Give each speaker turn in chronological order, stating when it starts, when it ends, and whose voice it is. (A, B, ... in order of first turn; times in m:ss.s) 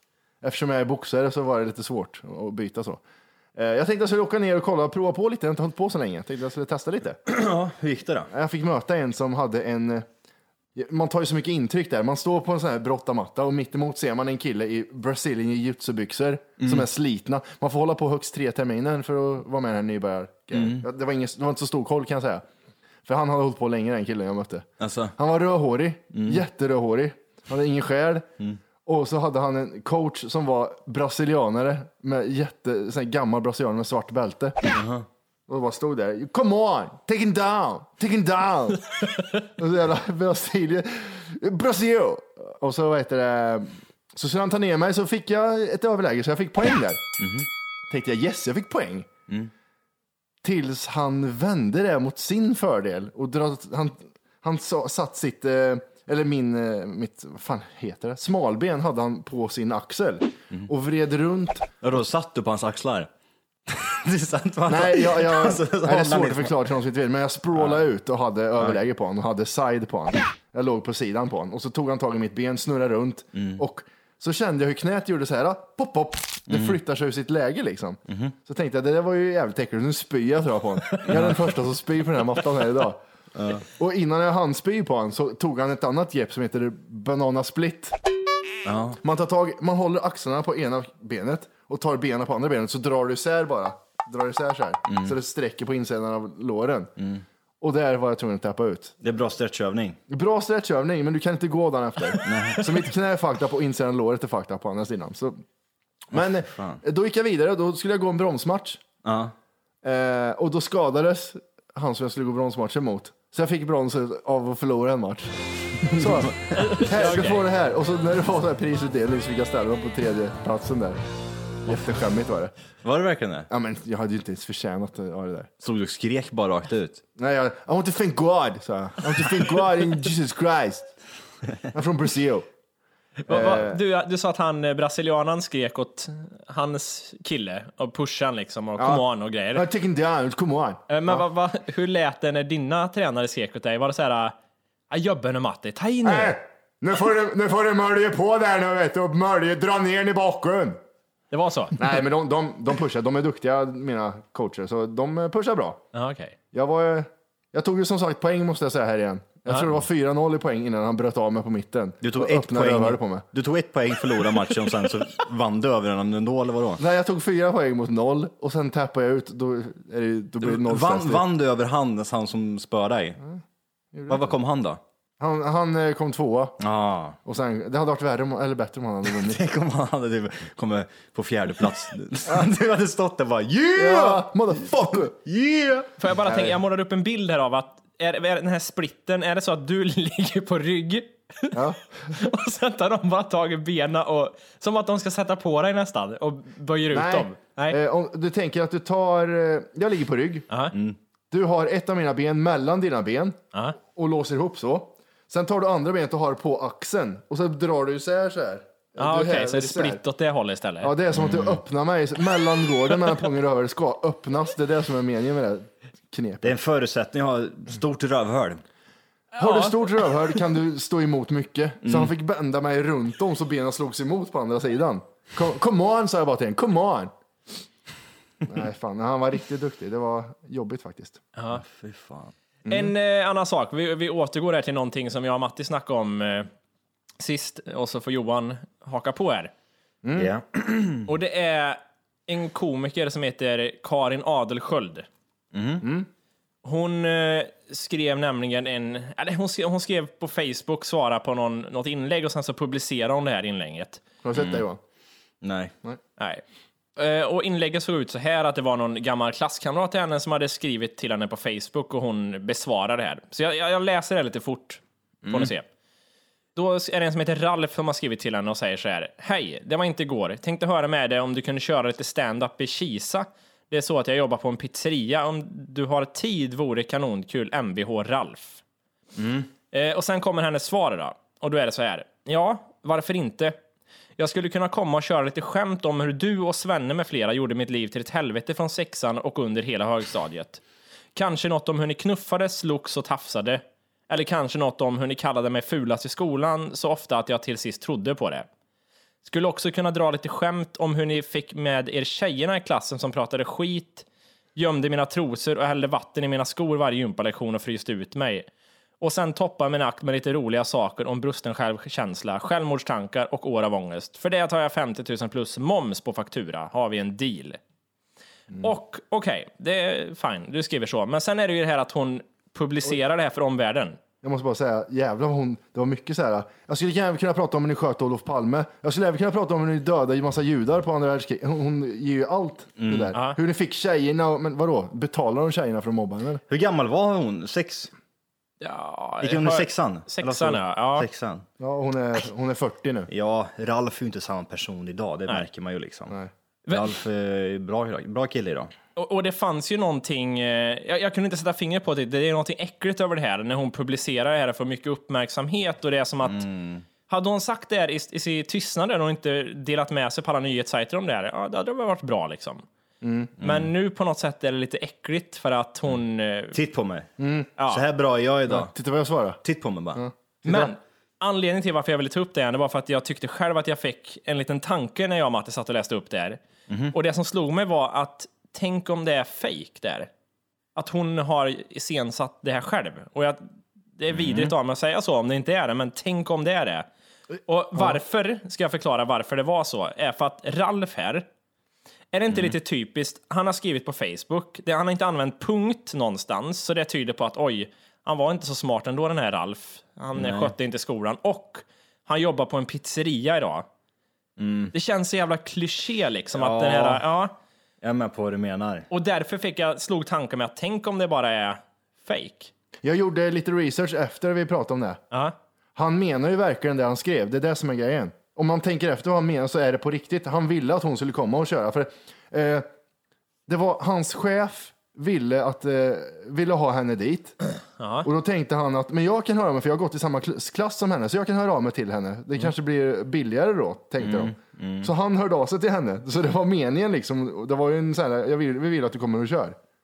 0:00.4-0:03.0 A
0:03.6-0:07.2 A
0:07.3-0:08.3 B
0:08.3-0:10.1 A
0:10.8-0:22.4 A
0:16.6-0:16.9 B
0:20.5-0:20.9 B
0:23.0-0:28.3 A
0:24.8-0:25.1 B
0:26.1-0:26.4 B
0:28.8-0:34.6 A
0:34.7-0:35.1 B
0:35.5-0:47.1 A
0:47.2-0:47.5 B
0:47.9-0:49.1 A
0:50.4-1:01.7 A
1:01.8-1:03.1 B
1:03.7-1:06.6 B
1:04.7-1:23.0 A
1:13.4-1:13.6 B
1:16.5-1:16.8 B
1:18.1-1:18.4 B
1:21.1-1:21.4 B
1:23.4-1:23.7 B
1:23.8-1:28.0 A
1:28.6-1:29.0 B
1:29.0-1:36.9 A
1:34.9-1:35.2 B
1:37.0-1:37.2 B
1:37.6-1:38.9 A
1:39.0-1:40.0 B
1:40.1-1:45.4 A
1:42.2-1:42.9 B
1:46.1-1:48.8 A
1:46.2-1:46.8 B
1:49.0-1:49.3 B
1:49.8-2:01.0 A
1:56.0-1:56.5 B
1:56.5-1:57.4 C
2:01.7-2:02.5 A
2:02.8-2:03.5 B
2:03.5-2:05.5 A
2:05.6-2:07.0 B
2:07.2-2:10.9 A
2:11.7-2:12.5 A
2:13.3-2:19.7 C
2:13.3-2:13.8 A
2:18.8-2:21.2 A
2:20.9-2:24.4 C
2:24.9-2:26.4 C
2:26.0-2:30.8 A
2:31.3-2:31.9 C
2:31.8-2:35.8 A
2:35.9-2:36.4 C
2:36.5-2:43.2 A
2:42.0-2:46.8 B
2:46.8-2:51.2 A
2:50.4-2:53.2 B
2:53.9-2:54.3 A
2:54.1-2:54.8 B
2:55.2-2:56.6 A
2:56.6-2:57.2 B
2:57.2-2:59.4 A
2:59.1-3:05.9 B
3:03.8-3:05.1 A
3:06.0-3:17.8 C
3:06.3-3:06.6 A
3:11.5-3:11.8 A
3:16.9-3:20.5 A
3:21.3-3:30.0 A
3:29.0-3:30.9 C
3:30.8-3:36.5 A
3:31.1-3:31.6 B
3:36.4-3:38.6 B
3:39.4-3:39.9 C
3:39.4-3:47.1 A
3:41.8-3:42.1 B
3:48.4-3:51.2 A
3:51.4-3:51.6 C
3:51.5-3:52.3 B
3:52.7-3:52.9 A
3:52.7-3:56.5 C
3:57.2-3:59.5 C
4:00.0-4:00.3 A
4:00.2-4:01.1 B
4:01.1-4:05.1 C
4:05.5-4:05.8 B
4:05.8-4:06.1 A
4:06.6-4:14.0 C
4:14.2-4:14.8 A
4:14.4-4:14.6 B
4:15.4-4:15.7 B
4:16.2-4:16.4 C
4:17.0-4:25.7 C
4:25.2-4:25.5 B
4:26.6-4:38.6 C
4:39.2-4:39.5 B
4:39.7-4:43.6 C
4:44.2-4:50.6 C
4:51.2-4:58.5 C
4:59.2-5:04.0 C
5:04.6-5:08.5 C
5:09.0-5:17.6 C
5:18.6-5:24.0 C
5:24.2-5:36.4 A
5:32.8-5:33.1 B
5:36.5-5:37.9 B
5:38.6-5:41.1 C
5:39.2-5:41.4 B
5:41.6-5:43.1 A
5:43.1-5:46.2 B
5:46.7-5:47.0 C
5:46.7-5:48.7 B
5:49.0-5:56.4 C
5:56.2-5:56.8 B
5:57.1-6:02.7 C
6:03.0-6:03.3 A
6:03.4-6:03.7 B
6:03.4-6:06.6 C
6:06.5-6:07.1 B
6:07.2-6:07.5 A
6:07.6-6:07.8 C
6:07.7-6:08.7 B
6:08.5-6:09.4 A
6:09.4-6:10.0 B
6:09.9-6:10.7 A
6:10.4-6:16.4 C
6:16.7-6:17.0 B
6:16.9-6:20.1 C
6:20.8-6:23.4 C
6:24.0-6:26.9 C
6:24.1-6:24.5 B
6:27.5-6:31.3 C
6:32.1-6:43.7 C
6:40.1-6:40.5 B
6:44.4-6:44.7 B
6:44.7-6:47.3 C
6:46.4-6:47.0 B
6:47.8-6:48.9 B
6:48.9-6:52.5 C
6:52.8-6:55.0 A
6:55.8-7:02.7 A
7:03.5-7:07.4 A
7:07.8-7:08.1 C
7:08.0-7:19.6 A
7:14.0-7:14.9 B